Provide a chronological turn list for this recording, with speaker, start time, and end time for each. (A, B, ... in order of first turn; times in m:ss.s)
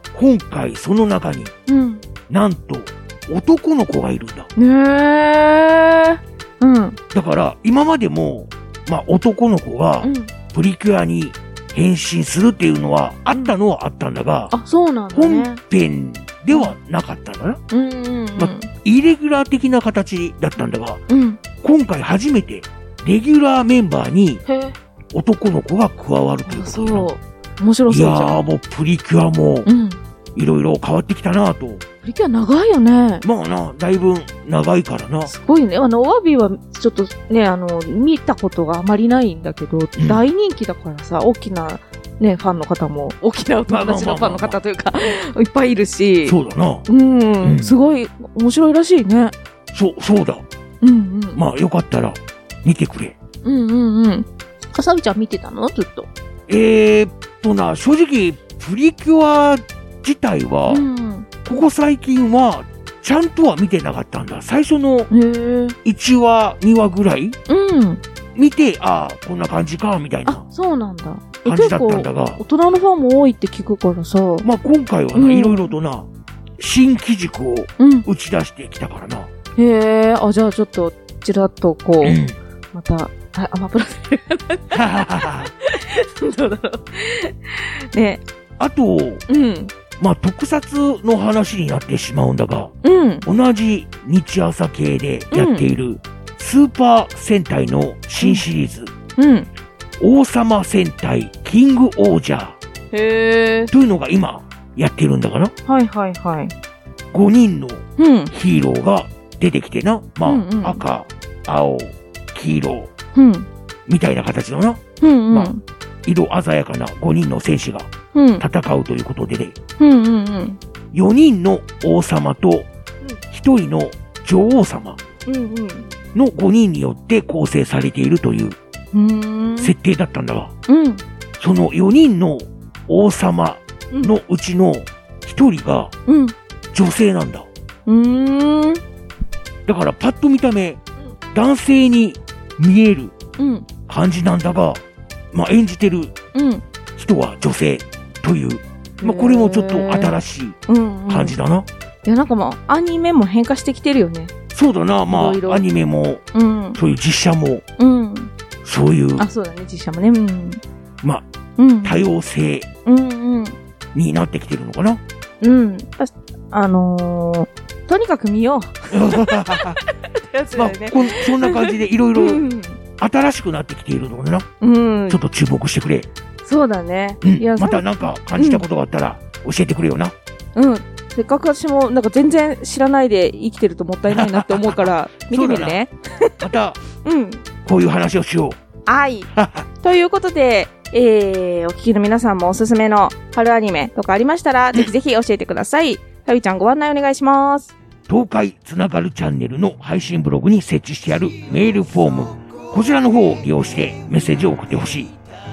0:00.1-0:01.5 A
0:01.7-0:02.0 B
0:02.3-0:04.5 A
0:04.6-0:07.0 B
0:07.1-0:14.5 A
0:10.0-0:10.3 B
0:14.5-0:15.6 B
0:15.1-0:17.6 A
0:17.7-0:18.7 B
0:18.4-0:21.0 A
0:21.1-0:21.4 B
0:21.6-0:24.4 A
0:24.4-0:24.8 B
0:25.1-0:27.1 A
0:26.5-0:28.4 B
0:27.9-0:29.7 A
0:29.6-0:30.0 B
0:30.3-0:31.8 A
0:32.0-0:33.2 B
0:33.2-0:35.3 A
0:35.2-0:49.3 B
0:40.0-0:40.2 A
0:43.7-0:44.6 A
0:46.2-0:46.8 A
0:47.4-0:47.7 A
0:49.7-0:50.4 A
0:50.8-0:51.4 B
0:51.3-0:53.1 A
0:53.4-0:56.1 B
0:56.5-1:00.9 A
1:00.7-1:01.3 B
1:01.4-1:05.1 A
1:05.1-1:05.8 B
1:05.8-1:07.4 A
1:07.5-1:08.0 B
1:08.4-1:10.4 A
1:10.2-1:14.5 B
1:11.4-1:12.4 A
1:14.4-1:16.1 A
1:15.1-1:15.7 B
1:16.6-1:19.3 A
1:17.8-1:18.1 B
1:19.6-1:22.2 B
1:22.0-1:22.4 A
1:22.7-1:28.2 B
1:24.7-1:25.5 A
1:28.6-1:29.2 A
1:29.3-1:29.7 B
1:30.0-1:32.7 A
1:32.8-1:33.3 B
1:33.2-1:38.9 A
1:35.3-1:35.7 B
1:38.2-1:38.4 B
1:39.2-1:39.5 B
1:40.0-1:42.6 A
1:42.9-1:43.7 B
1:43.7-1:45.5 A
1:45.6-1:46.5 B
1:47.1-1:52.9 A
1:48.0-1:48.3 B
1:50.2-1:50.8 B
1:53.1-1:53.5 B
1:53.9-1:55.5 A
1:55.0-1:55.6 B
1:56.0-1:59.5 A
1:58.1-1:58.4 B
1:59.8-2:00.6 B
2:00.9-2:02.7 A
2:03.3-2:05.0 A
2:05.2-2:05.9 B
2:06.1-2:08.6 A
2:08.9-2:09.7 B
2:09.6-2:10.5 A
2:10.7-2:11.0 B
2:11.4-2:15.9 A
2:13.9-2:14.2 B
2:16.0-2:16.3 B
2:16.7-2:17.5 A
2:17.8-2:18.8 B
2:19.6-2:20.8 A
2:21.3-2:23.1 A
2:23.4-2:23.7 B
2:23.9-2:24.8 A
2:25.3-2:26.1 A
2:26.3-2:26.6 B
2:27.0-2:30.6 A
2:29.0-2:30.1 B
2:30.7-2:31.4 B
2:31.1-2:31.7 A
2:32.0-2:34.3 B
2:34.5-2:36.2 A
2:35.1-2:35.6 B
2:36.3-2:36.8 B
2:36.8-2:37.6 A
2:37.8-2:38.3 B
2:38.6-2:39.2 A
2:39.2-2:40.6 B
2:41.6-2:42.0 B
2:41.8-2:42.7 A
2:42.8-2:43.6 B
2:43.9-2:45.0 A
2:45.4-2:52.8 B
2:48.9-2:49.8 A
2:50.5-2:52.4 A
2:53.0-2:54.4 A
2:54.6-2:55.2 B
2:55.1-2:56.1 A
2:56.4-2:58.6 B
2:57.2-3:00.1 A
3:00.5-3:06.4 B
3:04.1-3:05.8 A
3:06.4-3:06.8 A
3:07.0-3:07.4 B
3:07.6-3:08.6 A
3:08.8-3:09.3 B
3:09.3-3:09.6 A
3:09.8-3:17.7 B
3:18.1-3:25.2 A